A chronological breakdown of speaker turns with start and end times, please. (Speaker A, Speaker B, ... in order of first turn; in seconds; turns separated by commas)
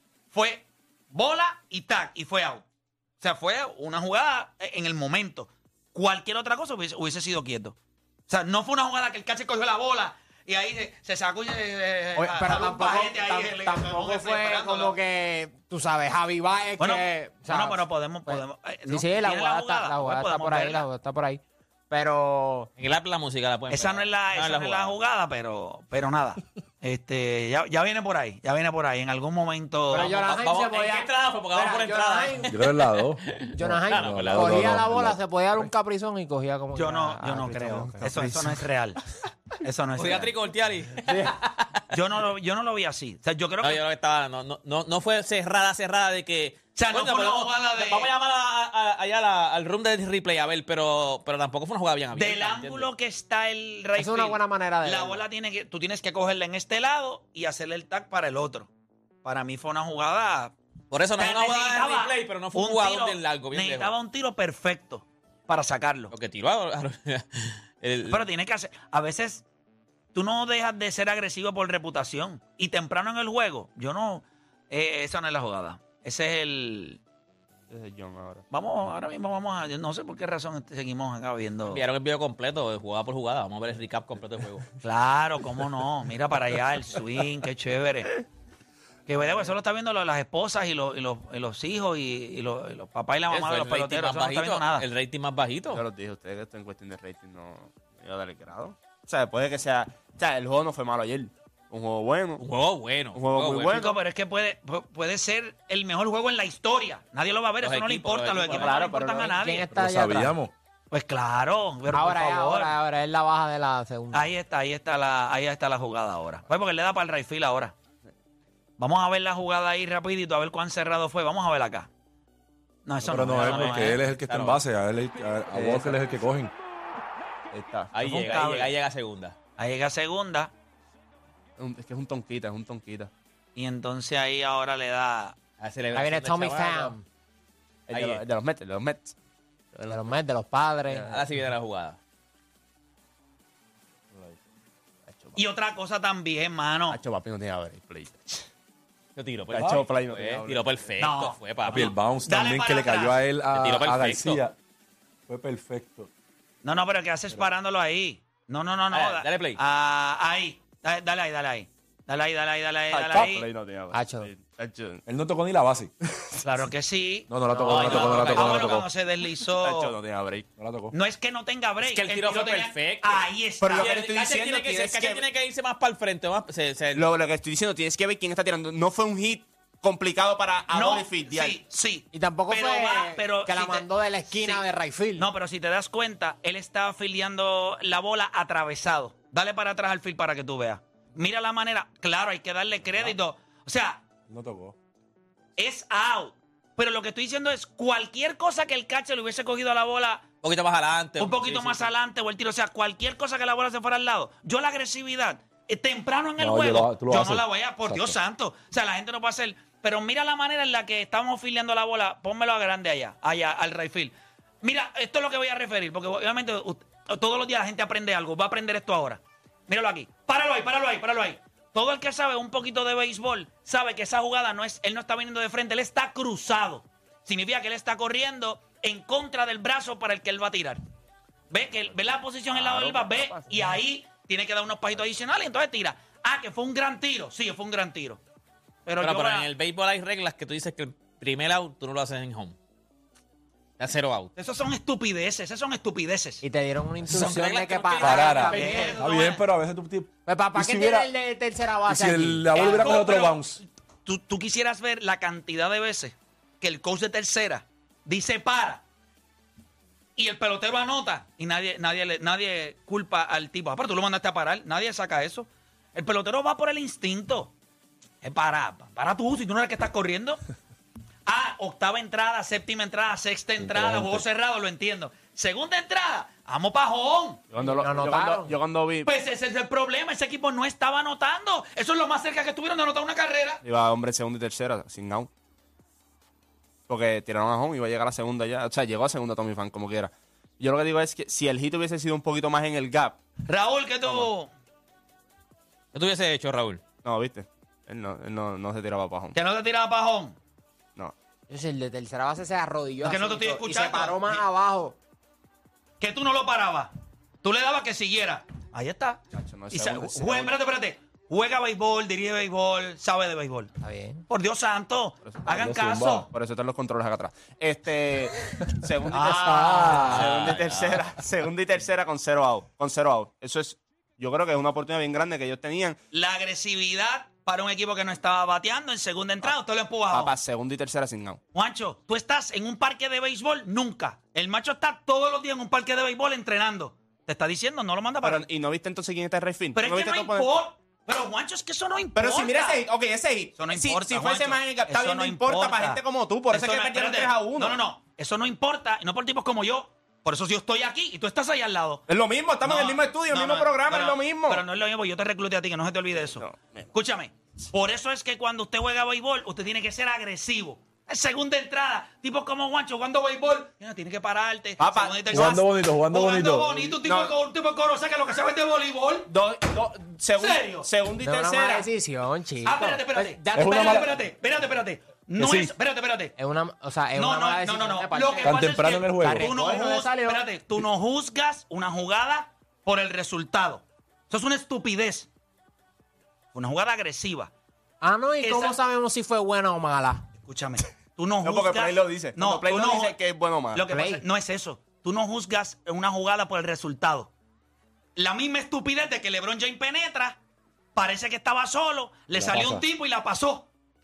Speaker A: 0.3-2.6, Speaker A: 3.2-7.8, Speaker A: 8.3-14.9, Speaker B: 12.1-22.7, Speaker A: 16.8-20.8, Speaker C: 22.8-25.0, Speaker A: 23.7-30.1, Speaker B: 29.9-32.6, Speaker C: 29.9-34.8, Speaker D: 32.5-35.7, Speaker B: 33.5-38.3, Speaker A: 36.8-39.0, Speaker E: 38.0-38.5, Speaker A: 39.6-40.3, Speaker C: 40.0-41.8, Speaker A: 41.9-43.8, Speaker C: 43.6-52.9, Speaker A: 46.8-48.1, Speaker A: 52.1-58.7, Speaker B: 54.0-55.2, Speaker A: 59.2-60.5, Speaker C: 60.9-63.9, Speaker A: 61.2-66.1, Speaker C: 66.1-68.2, Speaker A: 68.1-69.4, Speaker A: 70.1-77.0, Speaker E: 77.7-78.5, Speaker A: 78.5-81.8, Speaker C: 81.7-84.7, Speaker A: 84.8-88.1, Speaker A: 89.1-94.9, Speaker C: 93.3-95.8, Speaker E: 95.7-102.4, Speaker C: 102.4-103.9, Speaker E: 103.1-104.0, Speaker A: 103.7-109.7, Speaker C: 107.6-108.8, Speaker E: 108.5-109.4, Speaker B: 109.3-110.4, Speaker D: 109.7-110.5, Speaker A: 110.9-112.8, Speaker B: 111.9-114.3, Speaker A: 114.1-117.7, Speaker A: 118.8-121.9, Speaker A: 122.8-124.0, Speaker D: 123.0-126.5, Speaker C: 123.3-124.6, Speaker E: 125.5-126.1, Speaker E: 127.5-127.9, Speaker C: 127.9-129.4, Speaker A: 128.0-128.7, Speaker A: 129.6-130.5, Speaker E: 131.6-133.1, Speaker A: 133.6-135.4, Speaker C: 135.6-136.9, Speaker B: 135.9-137.0, Speaker E: 137.9-139.1, Speaker C: 137.9-138.2, Speaker B: 139.8-141.1, Speaker C: 141.0-142.0, Speaker E: 145.1-145.4, Speaker A: 145.4-147.0, Speaker E: 146.9-148.5, Speaker C: 149.2-151.9, Speaker E: 149.5-150.8, Speaker A: 151.0-153.2, Speaker D: 151.7-154.5, Speaker C: 153.5-154.4, Speaker D: 155.3-156.1, Speaker A: 156.6-163.5, Speaker C: 158.9-159.6, Speaker E: 162.9-165.0, Speaker B: 163.9-164.3, Speaker D: 165.1-165.9, Speaker A: 166.4-169.9, Speaker D: 167.3-168.9, Speaker C: 167.6-168.8, Speaker E: 169.6-170.5, Speaker D: 170.6-170.9, Speaker A: 170.9-173.9, Speaker C: 171.8-177.1, Speaker E: 173.6-175.2, Speaker E: 176.9-181.6, Speaker A: 180.7-184.6, Speaker B: 182.1-185.3, Speaker A: 185.2-194.1, Speaker D: 194.3-194.8, Speaker A: 195.6-200.3, Speaker C: 200.4-201.9, Speaker A: 201.2-230.8, Speaker D: 206.4-208.2, Speaker A: 231.5-238.2, Speaker E: 232.5-233.7, Speaker A: 238.9-239.5, Speaker C: 239.0-242.6, Speaker C: 243.8-244.3, Speaker A: 244.4-246.4, Speaker B: 246.4-248.9, Speaker C: 247.1-249.1, Speaker D: 248.0-251.1, Speaker A: 248.5-249.4, Speaker B: 250.2-252.9, Speaker D: 251.9-253.6, Speaker A: 252.5-258.8, Speaker A: 260.1-267.5, Speaker A: 268.2-270.4, Speaker A: 271.2-277.4, Speaker D: 273.6-274.2, Speaker E: 277.5-279.1, Speaker B: 277.6-278.6, Speaker A: 279.0-283.6, Speaker E: 283.6-285.3, Speaker E: 286.9-293.2, Speaker A: 293.4-294.5, Speaker C: 295.9-296.8, Speaker E: 297.0-299.4, Speaker A: 299.4-300.4, Speaker B: 301.5-304.9, Speaker A: 303.0-304.4, Speaker A: 306.0-313.7, Speaker E: 309.3-310.5, Speaker B: 313.8-314.2, Speaker A: 314.3-316.2, Speaker E: 315.2-315.7, Speaker D: 315.5-316.2, Speaker E: 316.2-326.0, Speaker A: 319.1-320.2, Speaker C: 320.0-321.1, Speaker A: 326.1-330.3, Speaker E: 330.1-331.4, Speaker A: 331.5-338.4, Speaker E: 338.2-340.5, Speaker A: 339.8-342.8, Speaker E: 342.1-347.8, Speaker A: 343.6-352.0, Speaker E: 352.1-354.6, Speaker A: 352.6-369.3, Speaker E: 356.3-356.9, Speaker E: 364.8-365.6, Speaker D: 365.3-366.9, Speaker E: 367.0-367.4, Speaker E: 369.3-371.9, Speaker A: 370.4-370.9, Speaker B: 371.2-374.1, Speaker A: 372.6-376.3, Speaker D: 373.5-374.1, Speaker D: 375.4-375.7, Speaker B: 376.4-380.4, Speaker A: 377.1-385.3, Speaker D: 378.4-379.5, Speaker A: 386.5-387.5, Speaker B: 388.0-390.2, Speaker A: 388.4-388.8, Speaker A: 390.4-393.1, Speaker E: 391.4-393.9, Speaker A: 393.7-397.3, Speaker B: 393.9-394.2, Speaker A: 398.1-400.4, Speaker A: 400.9-403.7, Speaker D: 402.3-402.8